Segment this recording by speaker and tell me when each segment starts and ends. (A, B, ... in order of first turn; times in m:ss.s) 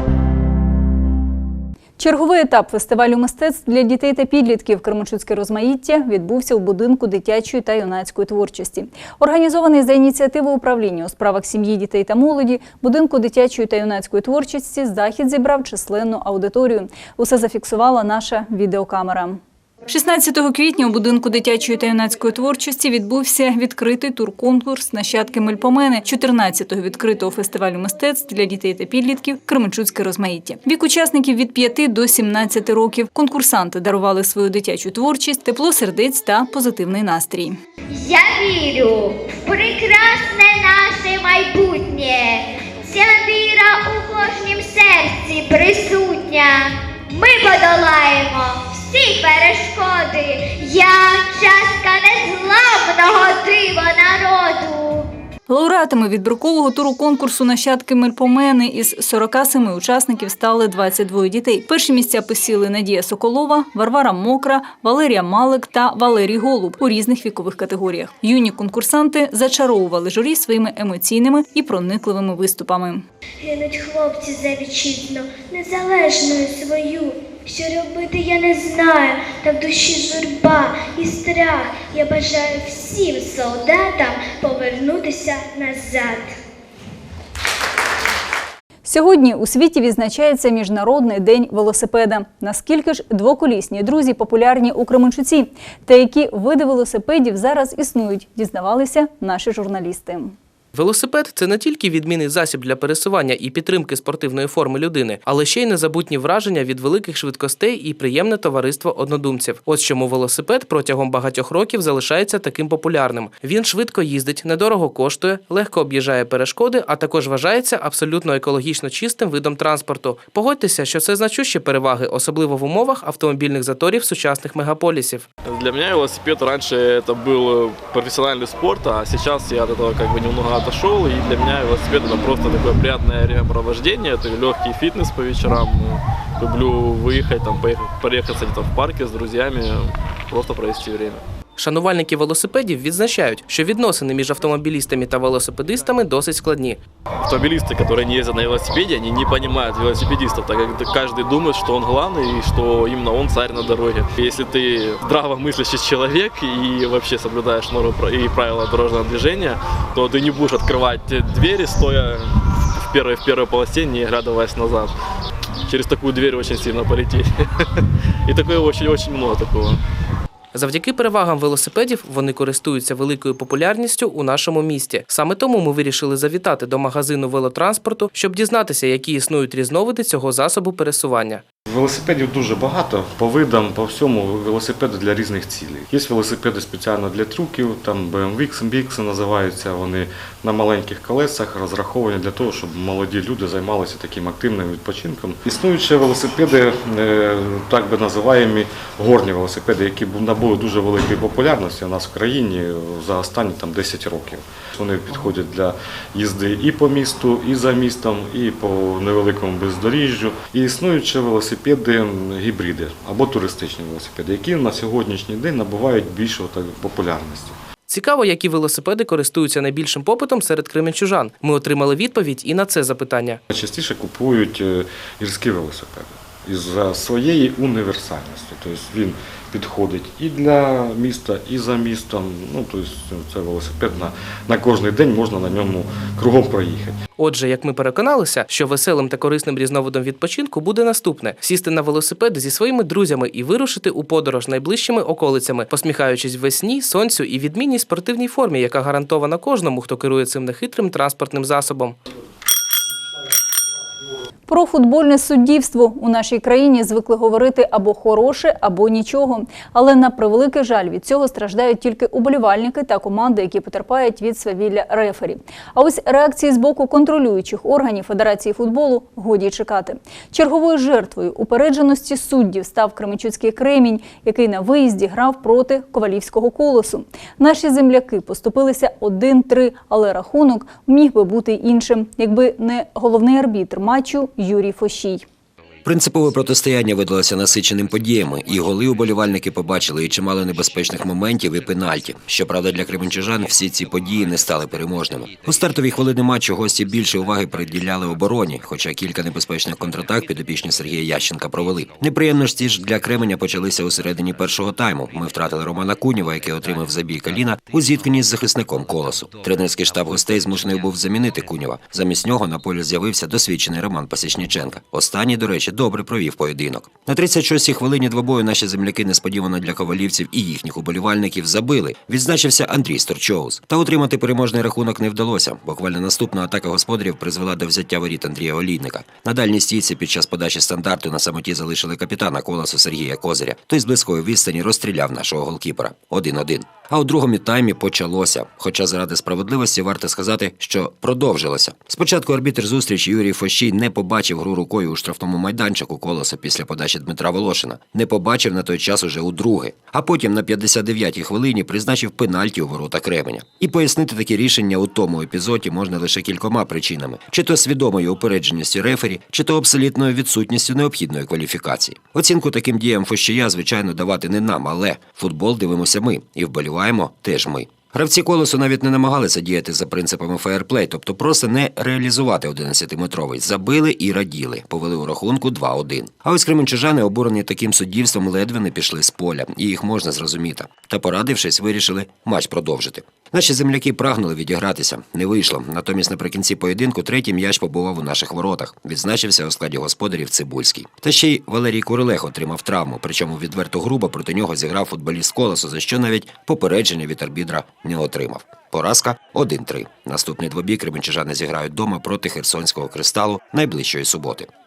0:02.0-0:37.6 A
0:37.9-0:54.7 B
0:55.5-1:13.1 A
1:13.4-1:26.4 B
1:28.8-1:40.4 A
1:40.7-2:05.2 C
2:05.4-2:21.2 D
2:21.6-2:26.8 C
2:27.2-2:44.9 D
2:45.7-2:47.3 D
2:48.2-2:49.8 D
2:50.5-3:01.4 C
3:01.6-3:37.6 E
3:37.9-3:43.4 C
3:43.5-3:57.0 E
3:57.2-4:12.0 C
4:14.5-4:45.3 A
4:45.8-6:44.5 F